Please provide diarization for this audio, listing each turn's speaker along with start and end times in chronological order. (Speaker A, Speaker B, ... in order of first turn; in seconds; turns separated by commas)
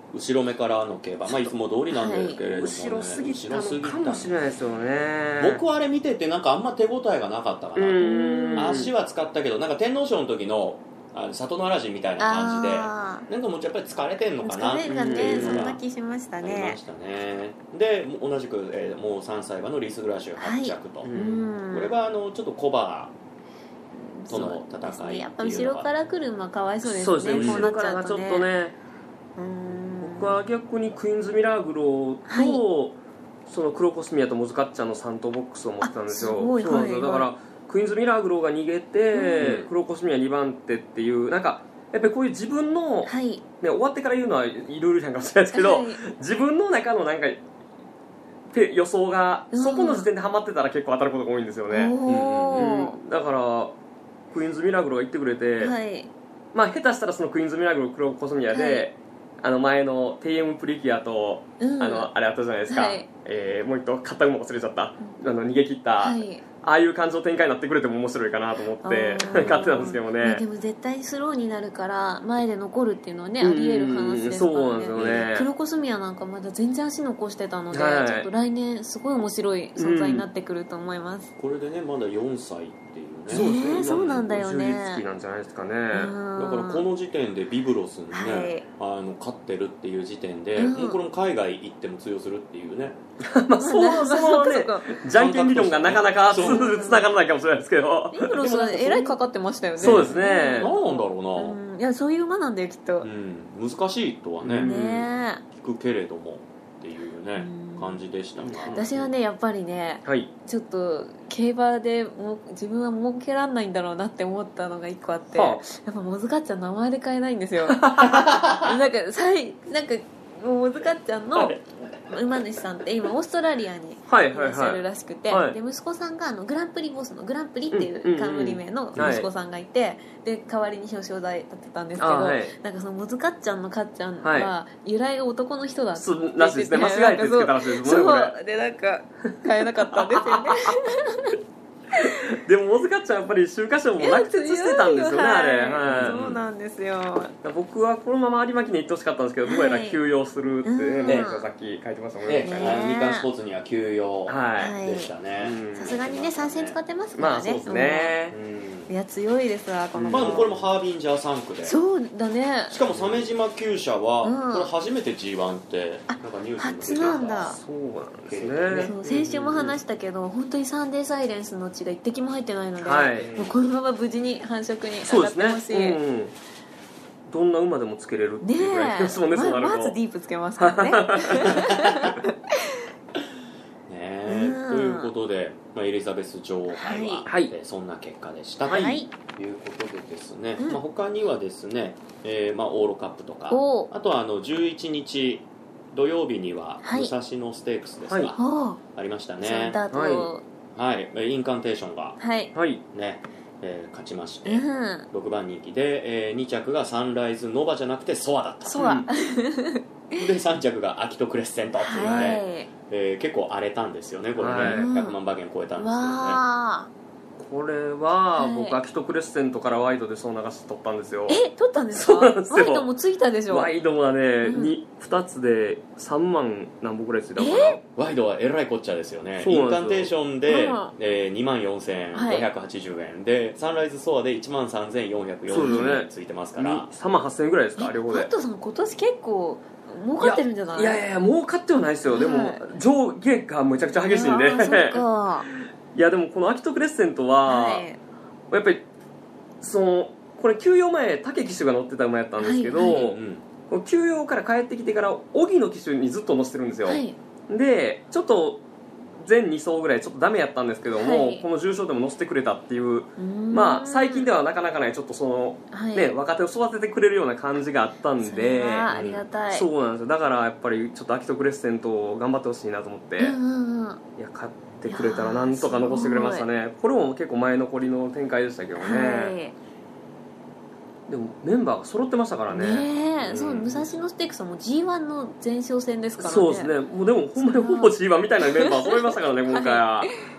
Speaker A: 0.1-4.4, Speaker B: 1.3-2.4, Speaker C: 2.5-5.6, Speaker A: 5.4-15.8, Speaker C: 7.8-8.9, Speaker B: 8.0-8.9, Speaker B: 12.2-13.3, Speaker B: 14.4-16.8, Speaker C: 14.8-15.7, Speaker A: 16.4-21.1, Speaker B: 20.4-22.0, Speaker C: 21.0-21.5, Speaker A: 21.7-23.1, Speaker B: 23.9-28.5, Speaker A: 24.3-25.9, Speaker C: 26.8-28.8, Speaker A: 27.3-27.7, Speaker B: 29.4-30.4, Speaker C: 30.0-33.0, Speaker B: 32.3-32.6, Speaker C: 33.5-47.4, Speaker B: 35.8-37.3, Speaker B: 39.1-39.7, Speaker B: 43.1-43.4, Speaker B: 45.5-46.0, Speaker C: 48.5-52.0, Speaker B: 49.5-50.1, Speaker B: 51.7-53.0, Speaker A: 52.1-52.7, Speaker C: 52.6-53.8, Speaker C: 54.3-55.8, Speaker B: 55.6-56.1, Speaker C: 56.5-70.5, Speaker B: 58.5-58.9, Speaker B: 61.6-62.1, Speaker B: 62.7-63.1, Speaker B: 66.0-66.4, Speaker B: 68.8-81.3, Speaker A: 69.2-69.8, Speaker C: 73.4-75.5, Speaker A: 75.0-75.3, Speaker C: 77.7-78.3, Speaker C: 79.8-80.3, Speaker A: 81.4-84.3, Speaker C: 83.3-86.2, Speaker B: 83.3-85.0, Speaker B: 85.9-86.9, Speaker A: 86.3-93.0, Speaker B: 88.1-88.7, Speaker B: 90.6-91.0, Speaker C: 93.2-98.4, Speaker B: 93.6-94.9, Speaker A: 95.1-96.8, Speaker B: 96.3-97.1, Speaker B: 98.1-103.1, Speaker A: 98.3-99.2, Speaker A: 99.8-101.6, Speaker C: 99.8-100.7, Speaker A: 103.0-109.1, Speaker C: 104.4-105.0, Speaker B: 104.6-105.4, Speaker B: 107.3-108.0, Speaker C: 108.4-108.9, Speaker B: 108.7-141.3, Speaker C: 110.0-110.3, Speaker C: 115.3-115.6, Speaker C: 117.7-118.2, Speaker A: 118.1-118.6, Speaker C: 124.1-125.6, Speaker C: 127.7-129.3, Speaker A: 128.9-129.2, Speaker C: 132.0-132.6, Speaker C: 134.2-134.5, Speaker C: 136.0-138.4, Speaker C: 139.4-140.7, Speaker C: 142.0-146.2, Speaker B: 144.0-147.3, Speaker A: 145.9-146.4, Speaker C: 147.4-152.8, Speaker B: 149.4-150.0, Speaker B: 150.7-151.5, Speaker A: 151.1-151.3, Speaker A: 152.3-156.8, Speaker B: 152.4-153.3, Speaker C: 154.3-154.8, Speaker B: 154.6-155.1, Speaker C: 155.4-156.0, Speaker B: 155.8-158.2, Speaker C: 157.2-158.4, Speaker A: 158.3-158.9, Speaker B: 158.9-160.5, Speaker C: 159.9-160.7, Speaker A: 160.1-161.8, Speaker B: 161.6-162.8, Speaker A: 162.7-167.6, Speaker C: 162.9-163.3, Speaker B: 164.2-164.7, Speaker B: 166.1-167.6, Speaker C: 167.3-169.8, Speaker A: 168.3-168.9, Speaker B: 168.8-176.0, Speaker C: 172.8-173.3, Speaker A: 173.2-173.6, Speaker C: 175.0-176.4, Speaker C: 177.3-180.0, Speaker B: 178.4-182.3, Speaker C: 180.6-181.6, Speaker A: 183.9-199.8, Speaker B: 184.3-185.1, Speaker B: 186.7-187.3, Speaker C: 187.3-187.5, Speaker B: 188.7-189.1, Speaker C: 188.7-188.9, Speaker B: 193.5-193.9, Speaker B: 196.8-197.1, Speaker C: 198.1-198.3, Speaker B: 198.4-198.8, Speaker B: 199.4-200.4, Speaker C: 199.9-200.3, Speaker A: 200.8-202.2, Speaker B: 202.2-202.5, Speaker C: 202.5-202.8, Speaker A: 202.9-208.8, Speaker B: 204.4-205.1, Speaker B: 208.7-210.3, Speaker C: 208.8-209.1, Speaker A: 210.2-216.4, Speaker B: 211.8-212.7, Speaker C: 212.0-212.4, Speaker C: 214.4-214.8, Speaker B: 214.6-215.2, Speaker B: 215.8-216.9, Speaker C: 217.4-222.9, Speaker B: 218.3-218.8, Speaker B: 221.3-223.7, Speaker C: 223.5-227.8, Speaker B: 224.4-224.8, Speaker B: 227.4-227.8, Speaker A: 228.0-236.9, Speaker C: 229.4-230.1, Speaker B: 230.5-230.9, Speaker B: 232.1-232.5, Speaker C: 235.5-238.3, Speaker B: 235.5-236.0, Speaker B: 237.8-241.0, Speaker C: 240.2-245.1, Speaker B: 242.1-242.6, Speaker B: 244.0-245.5, Speaker C: 245.9-247.9, Speaker B: 247.5-248.0, Speaker C: 248.5-248.8, Speaker C: 249.6-258.6, Speaker B: 252.4-253.0, Speaker A: 252.8-253.4, Speaker B: 256.9-257.2, Speaker C: 259.2-273.4, Speaker B: 260.9-261.5, Speaker B: 263.2-264.3, Speaker B: 265.7-266.1, Speaker B: 268.2-269.7, Speaker A: 268.9-269.2, Speaker B: 273.2-274.0, Speaker C: 274.2-279.4, Speaker B: 274.9-276.5, Speaker B: 278.8-279.6, Speaker C: 281.1-283.8, Speaker B: 282.5-286.8, Speaker A: 283.2-283.8, Speaker C: 286.2-290.1, Speaker B: 287.4-288.0, Speaker B: 288.6-288.9, Speaker B: 289.5-290.1